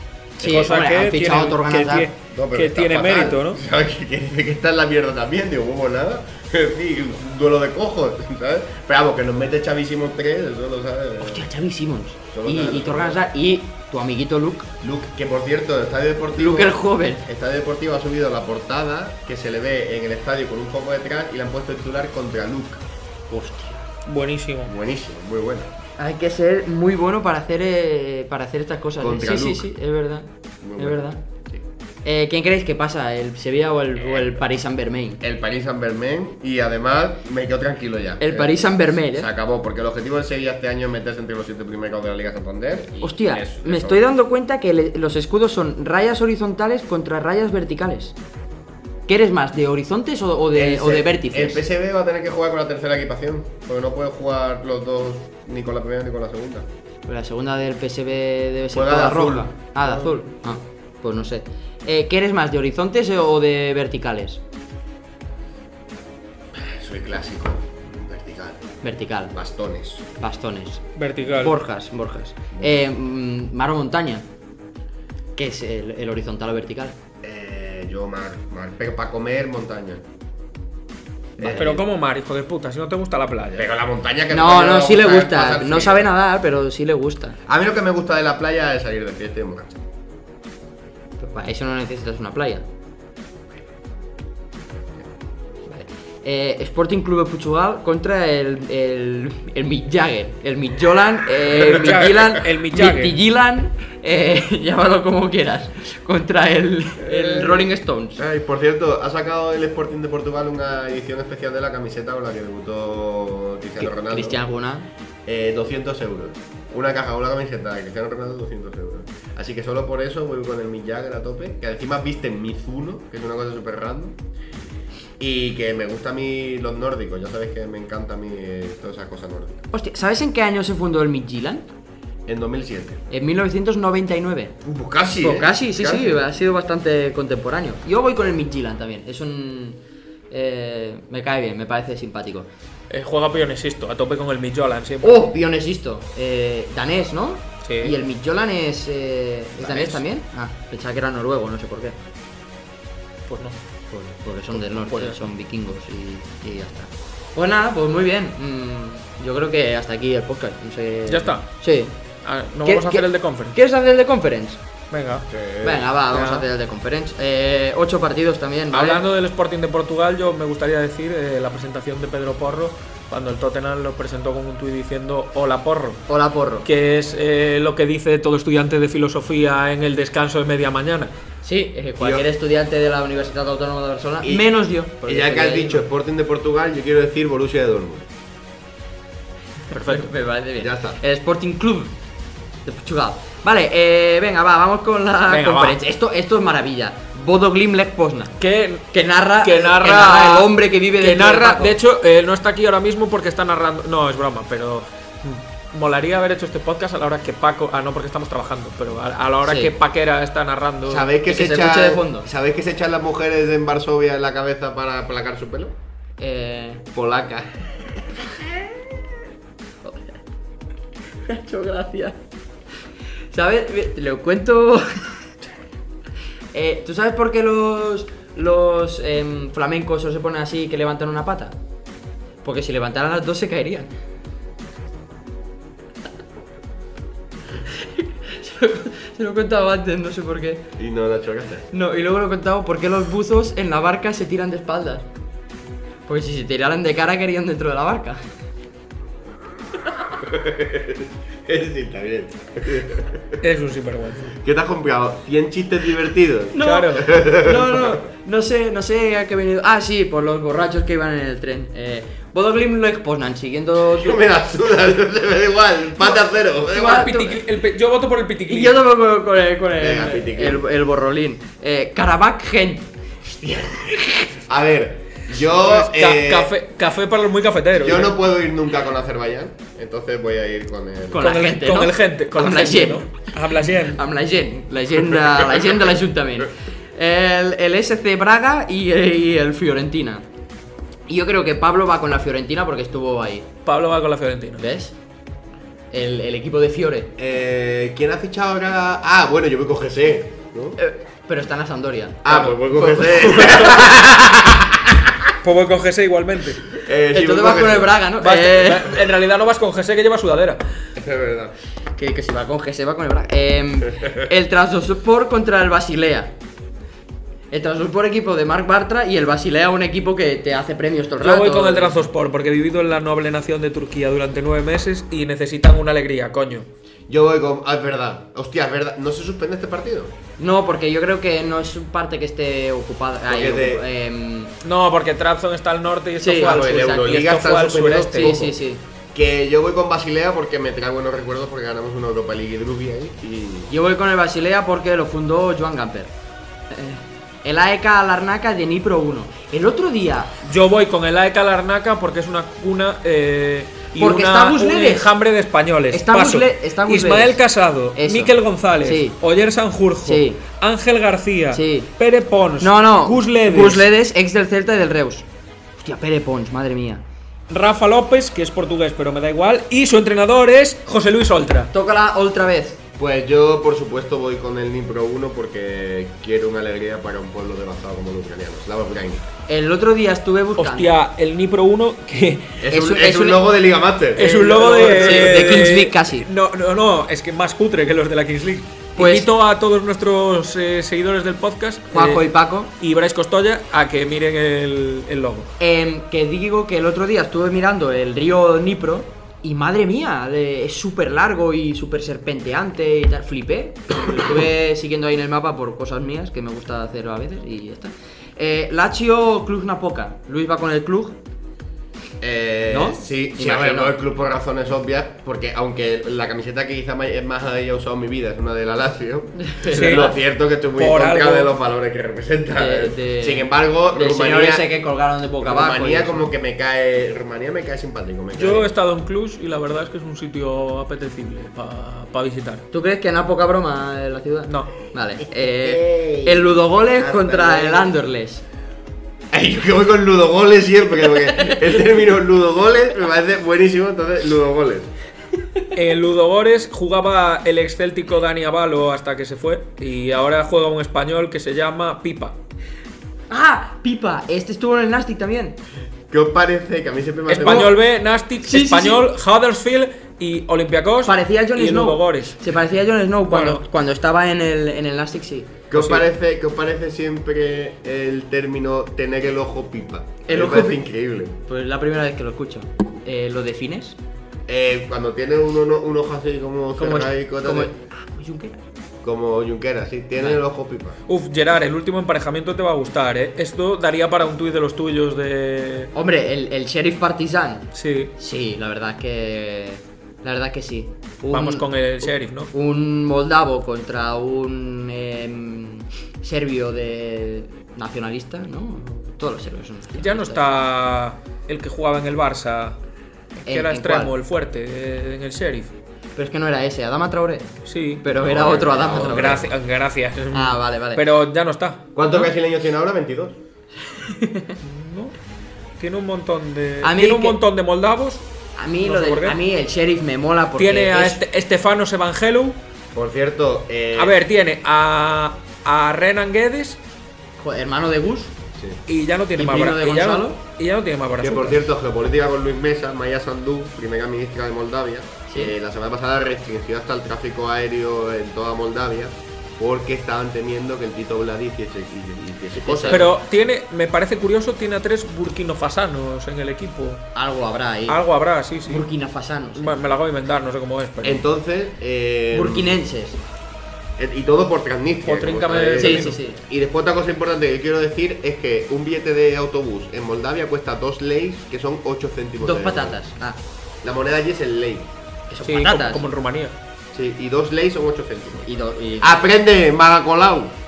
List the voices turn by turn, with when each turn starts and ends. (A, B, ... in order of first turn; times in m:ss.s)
0:00.4-0:02.1 A
0:00.4-0:03.6 B
0:02.3-0:11.4 C
0:11.2-0:14.7 A
0:12.3-0:13.2 C
0:14.8-0:22.8 C
0:16.4-0:17.2 A
0:23.3-0:23.9 A
0:24.1-0:24.7 B
0:24.7-0:25.7 C
0:26.0-0:31.2 A
0:29.0-0:29.7 C
0:30.6-0:31.6 C
0:32.0-0:35.2 A
0:34.0-0:34.4 C
0:35.2-0:44.0 C
0:38.2-0:39.3 A
0:43.0-0:48.2 A
0:49.1-0:51.6 A
0:50.5-0:56.7 C
0:57.1-1:04.4 A
0:58.7-1:00.2 C
1:06.5-1:08.7 C
1:08.8-1:09.4 A
1:09.3-1:10.1 C
1:10.2-1:14.3 A
1:11.0-1:11.6 B
1:15.4-1:17.0 A
1:17.2-1:20.0 C
1:21.4-1:21.9 C
1:21.4-1:23.7 B
1:23.5-1:26.1 C
1:24.3-1:27.4 A
1:27.5-1:29.8 C
1:31.2-1:32.6 A
1:35.7-1:48.2 A
1:41.5-1:43.2 B
1:47.0-1:54.4 C
1:53.8-1:54.9 A
1:55.3-2:04.2 C
2:05.2-2:09.6 C
2:09.7-2:11.7 A
2:12.3-2:13.0 C
2:13.1-2:14.6 A
2:14.6-2:16.2 C
2:15.2-2:19.8 A
2:20.3-2:22.5 A
2:22.9-2:25.3 B
2:25.0-2:32.0 A
2:27.6-2:28.0 B
2:29.6-2:30.0 B
2:33.3-2:33.6 B
2:33.9-2:41.9 A
2:34.5-2:35.2 B
2:41.1-2:41.4 B
2:42.2-2:43.6 B
2:42.6-2:44.6 A
2:44.9-2:45.3 B
2:45.3-2:45.9 C
2:45.6-2:49.0 A
2:46.1-2:46.5 B
2:48.7-2:56.0 B
2:56.1-2:56.7 A
2:56.6-3:01.1 B
3:01.4-3:05.8 A
3:02.0-3:02.3 C
3:04.2-3:04.5 C
3:05.0-3:08.1 C
3:09.7-3:10.1 B
3:09.9-3:11.9 A
3:10.6-3:11.0 C
3:12.7-3:18.3 A
3:15.3-3:15.8 B
3:18.4-3:31.1 B
3:18.9-3:21.8 A
3:29.4-3:29.7 A
3:30.9-3:35.8 C
3:31.3-3:32.3 A
3:36.2-3:36.8 A
3:36.9-3:37.7 C
3:41.3-3:42.2 A
3:43.3-3:45.1 A
3:46.5-3:51.6 A
3:52.4-3:53.9 A
3:57.6-4:00.7 A
4:00.8-4:01.7 C
4:01.7-4:05.1 A
4:06.1-4:08.2 A
4:10.2-4:13.4 C
4:13.4-4:14.3 B
4:14.3-4:18.0 C
4:16.5-4:24.2 A
4:16.6-4:17.1 B
4:24.0-4:27.1 C
4:26.7-4:27.4 A
4:26.8-4:28.8 B
4:28.5-4:32.9 A
4:29.8-4:30.6 C
4:33.3-4:36.6 C
4:35.5-4:38.1 B
4:37.7-4:41.3 C
4:41.1-4:43.1 A
4:41.2-4:44.0 B
4:43.9-4:50.3 A
4:51.1-4:53.5 A
4:53.6-4:54.6 B
4:54.6-4:55.0 A
4:55.9-4:57.1 A
4:57.2-5:00.8 C
5:00.8-5:04.1 A
5:02.2-5:05.3 C
5:03.4-5:03.9 B
5:05.4-5:06.7 B
5:06.8-5:08.0 C
5:07.1-5:08.9 A
5:08.2-5:10.6 B
5:11.0-5:11.5 C
5:12.0-5:16.3 A
5:17.5-5:22.1 A
5:21.2-5:26.7 B
5:27.1-5:30.1 C
5:30.4-5:34.5 A
5:33.3-5:33.8 C
5:34.6-5:38.4 B
5:36.2-5:37.2 A
5:36.4-5:38.6 C
5:38.2-5:38.8 A
5:39.1-5:43.7 C
5:43.7-5:46.1 A
5:46.7-5:50.3 A
5:50.4-6:03.9 B
5:54.0-5:55.1 A
5:55.9-5:57.4 A
5:58.0-5:59.2 A
6:00.0-6:00.4 A
6:01.5-6:01.9 A
6:02.6-6:05.3 A
6:05.8-6:07.0 A
6:07.5-6:11.7 B
6:11.7-6:12.8 A
6:13.0-6:19.3 C
6:19.5-6:20.9 A
6:20.6-6:22.6 B
6:22.6-6:25.7 C
6:22.7-6:23.4 A
6:24.2-6:35.5 B
6:24.7-6:26.3 A
6:29.0-6:29.3 A
6:31.9-6:32.7 A
6:35.6-6:51.2 A
6:52.2-7:04.7 C
6:52.7-6:54.0 A
6:59.4-7:00.2 A
6:59.7-7:00.1 B
7:00.8-7:01.5 B
7:02.6-7:06.3 A
7:05.4-7:08.7 C
7:08.4-7:12.6 B
7:12.7-7:18.4 A
7:14.5-7:14.7 B
7:15.3-7:18.0 C
7:19.3-7:24.9 C
7:21.4-7:21.8 A
7:25.7-7:32.4 B
7:33.3-7:35.6 A
7:36.1-7:37.8 C
7:37.3-7:42.6 B
7:37.4-7:37.8 A
7:38.4-7:39.0 A
7:41.0-7:45.5 A
7:43.2-7:43.6 B
7:45.7-7:51.4 C
7:45.7-7:46.0 B
7:50.2-7:50.8 A
7:51.5-7:54.0 A
7:54.5-7:57.7 C
7:56.8-7:58.6 A
7:59.0-8:01.0 C
8:01.1-8:05.9 B
8:06.0-8:20.4 A
8:07.7-8:08.1 B
8:11.3-8:12.5 B
8:20.0-8:22.8 B
8:23.4-8:25.7 B
8:23.5-8:24.1 A
8:26.2-8:29.5 A
8:27.7-8:32.3 B
8:28.2-8:29.5 C
8:30.3-8:31.0 A
8:32.0-8:33.4 C
8:33.9-8:34.6 A
8:34.6-8:35.2 B
8:35.8-8:38.2 B
8:36.8-8:37.4 A
8:38.6-8:41.2 A
8:38.8-8:39.4 B
8:40.6-8:42.6 B
8:42.9-8:44.2 C
8:44.0-8:46.8 B
8:47.4-8:48.3 A
8:48.9-8:51.6 B
8:49.4-8:50.4 A
8:51.2-9:03.1 C
8:55.3-8:55.5 A
9:02.6-9:03.1 A
9:02.9-9:07.1 B
9:07.2-9:08.0 A
9:07.9-9:08.8 B
9:08.7-9:09.8 A
9:09.6-9:11.3 B
9:11.0-9:12.8 C
9:12.3-9:13.2 A
9:14.0-9:23.0 C
9:15.0-9:16.2 B
9:15.8-9:16.4 A
9:22.4-9:23.4 A
9:23.8-9:24.9 C
9:25.3-9:26.0 A
9:25.4-9:26.6 B
9:26.9-9:28.5 C
9:28.4-9:29.2 A
9:29.0-9:30.6 C